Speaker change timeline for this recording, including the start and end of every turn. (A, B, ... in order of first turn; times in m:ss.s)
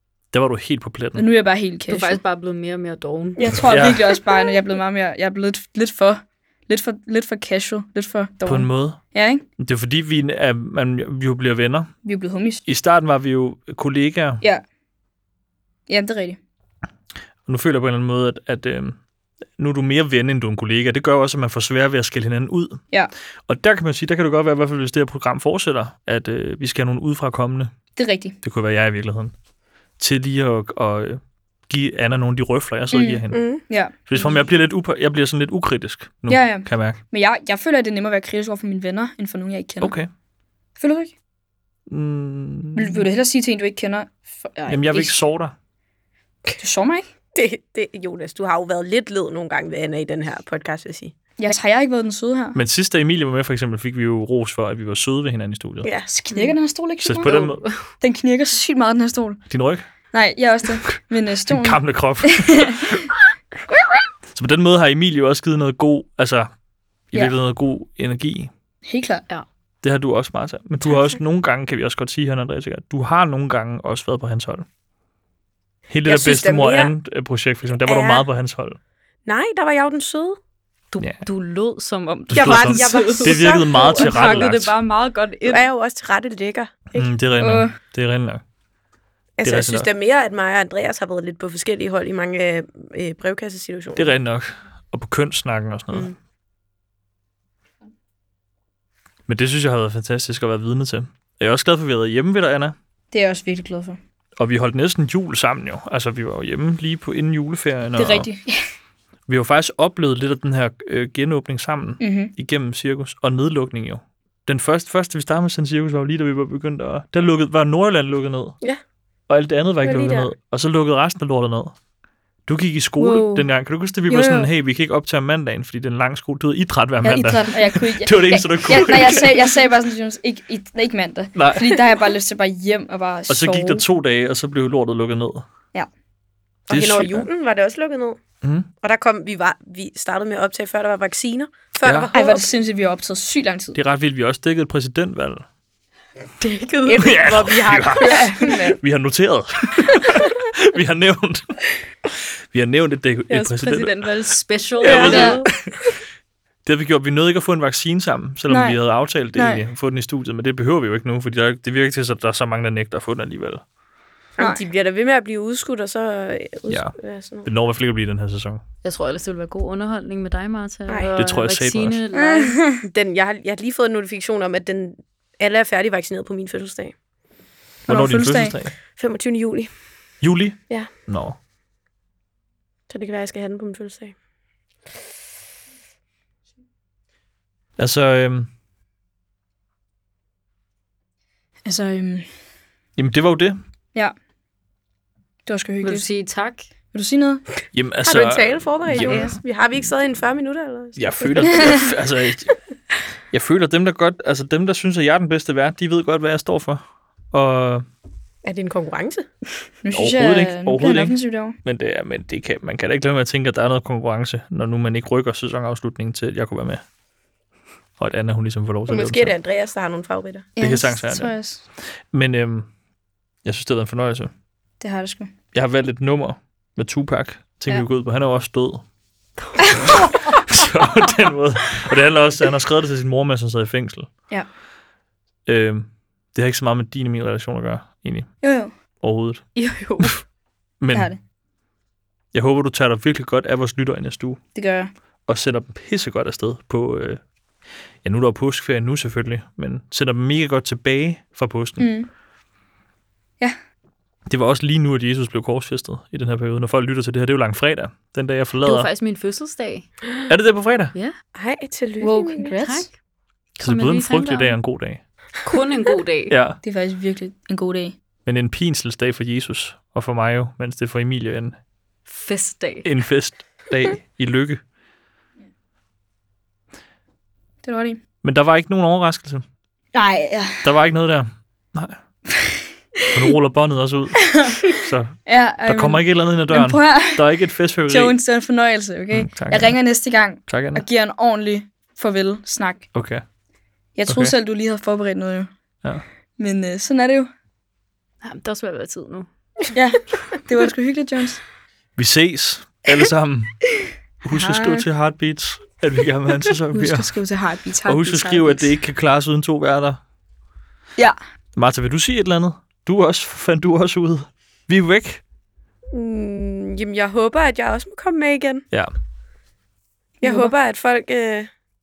0:00.3-0:01.3 A
0:01.2-0:02.2 B
0:01.9-0:03.6 C
0:03.4-0:09.4 B
0:03.7-0:04.0 A
0:08.4-0:09.0 A
0:09.6-0:11.9 A
0:12.0-0:12.6 B
0:12.7-0:14.4 A
0:15.9-0:16.4 B
0:17.5-0:19.0 A
0:19.6-0:22.8 A
0:23.5-0:27.8 A
0:28.0-0:28.4 B
0:28.4-0:29.3 A
0:30.0-0:33.5 A
0:32.9-0:33.9 B
0:33.3-0:33.6 D
0:34.0-0:37.0 A
0:36.3-0:40.0 B
0:39.8-0:40.1 A
0:40.8-0:41.1 B
0:41.9-0:43.0 A
0:42.7-0:45.1 B
0:44.7-0:45.6 A
0:46.6-0:47.1 B
0:47.3-0:51.1 D
0:51.4-0:52.6 B
0:52.6-0:55.9 A
0:55.8-0:56.4 D
0:56.1-0:57.5 B
0:57.0-0:57.6 A
0:57.2-0:57.8 C
0:58.0-0:59.4 B
0:59.5-0:59.9 A
1:00.1-1:02.8 B
1:01.5-1:03.0 A
1:04.3-1:06.5 A
1:07.1-1:08.5 A
1:08.9-1:09.2 B
1:09.8-1:14.7 A
1:15.9-1:18.8 A
1:16.0-1:16.9 D
1:17.8-1:18.3 D
1:19.2-1:20.4 D
1:20.9-1:25.7 C
1:22.3-1:24.7 A
1:22.3-1:24.5 D
1:25.4-1:26.9 D
1:27.0-1:28.4 A
1:27.4-1:27.8 B
1:29.4-1:34.1 D
1:29.4-1:29.9 A
1:34.0-1:36.1 A
1:39.3-1:42.8 A
1:43.1-1:44.0 B
1:44.4-1:48.3 A
1:48.0-1:48.6 B
1:49.3-1:58.6 A
1:52.0-1:52.3 B
1:59.3-2:01.8 A
1:59.8-2:00.3 D
2:02.5-2:09.5 A
2:03.0-2:03.5 B
2:04.1-2:04.5 B
2:07.0-2:13.8 B
2:11.4-2:11.8 A
2:13.3-2:15.5 A
2:16.7-2:18.2 D
2:16.7-2:17.3 A
2:18.4-2:18.7 A
2:18.8-2:22.5 D
2:21.8-2:22.1 A
2:22.1-2:23.8 B
2:23.7-2:25.4 A
2:26.4-2:28.7 D
2:27.0-2:31.6 A
2:28.0-2:28.8 B
2:32.5-2:33.9 A
2:33.3-2:33.8 D
2:33.3-2:35.5 C
2:34.8-2:35.5 D
2:34.8-2:35.6 A
2:35.1-2:35.4 B
2:36.7-2:43.6 A
2:38.5-2:38.8 B
2:39.3-2:39.6 B
2:44.4-2:47.5 D
2:46.7-2:48.6 A
2:48.8-2:52.6 C
2:50.9-2:51.1 D
2:51.2-2:52.0 A
2:52.1-2:52.8 B
2:52.8-2:57.0 D
2:57.9-2:58.6 B
2:57.9-2:58.8 A
2:59.0-2:59.7 D
3:00.2-3:01.4 A
3:02.9-3:04.2 D
3:07.8-3:08.5 A
3:11.7-3:12.3 B
3:13.0-3:13.6 A
3:15.5-3:16.1 B
3:15.8-3:16.7 C
3:16.9-3:17.4 B
3:17.7-3:19.3 A
3:18.0-3:21.8 D
3:19.1-3:19.3 B
3:21.0-3:22.6 A
3:23.3-3:27.8 A
3:28.4-3:29.3 D
3:29.8-3:31.6 B
3:29.9-3:36.8 A
3:38.0-3:39.4 A
3:38.9-3:40.5 D
3:40.6-3:41.6 B
3:40.6-3:41.3 A
3:42.1-3:42.7 A
3:43.4-3:44.3 A
3:44.8-3:45.3 B
3:45.5-3:48.8 A
3:49.7-3:49.9 B
3:50.0-3:54.1 A
3:55.5-3:58.4 A
3:58.4-3:58.7 B
3:59.0-4:00.2 A
3:59.6-4:00.1 C
4:00.8-4:01.1 A
4:00.9-4:01.2 B
4:02.3-4:04.4 A
4:04.6-4:04.9 B
4:05.3-4:07.2 A
4:08.0-4:11.9 A
4:11.8-4:12.1 B
4:14.3-4:18.9 A
4:18.6-4:19.9 C
4:20.3-4:20.9 A
4:21.4-4:22.6 D
4:22.0-4:22.9 B
4:22.6-4:23.0 C
4:23.6-4:25.0 A
4:23.6-4:24.6 C
4:25.4-4:26.4 C
4:26.3-4:26.6 A
4:26.6-4:28.0 B
4:28.3-4:31.6 A
4:32.1-4:32.9 C
4:32.8-4:34.6 A
4:37.6-4:38.0 B
4:38.2-4:39.4 A
4:39.9-4:40.7 B
4:40.6-4:42.0 A
4:43.1-4:48.2 A
4:44.3-4:44.7 B
4:45.3-4:47.3 B
4:47.9-4:52.9 B
4:49.1-4:49.8 A
4:50.5-4:50.8 A
4:52.9-4:53.2 A
4:54.0-4:55.5 B
4:54.1-4:54.3 A
4:56.4-4:57.3 B
4:58.2-4:59.3 C
4:59.7-5:01.4 B
5:02.0-5:03.6 A
5:04.2-5:07.2 A
5:04.3-5:04.9 B
5:06.7-5:08.7 B
5:07.8-5:10.0 A
5:11.6-5:15.2 A
5:15.9-5:18.6 D
5:20.2-5:21.5 D
5:20.2-5:20.5 B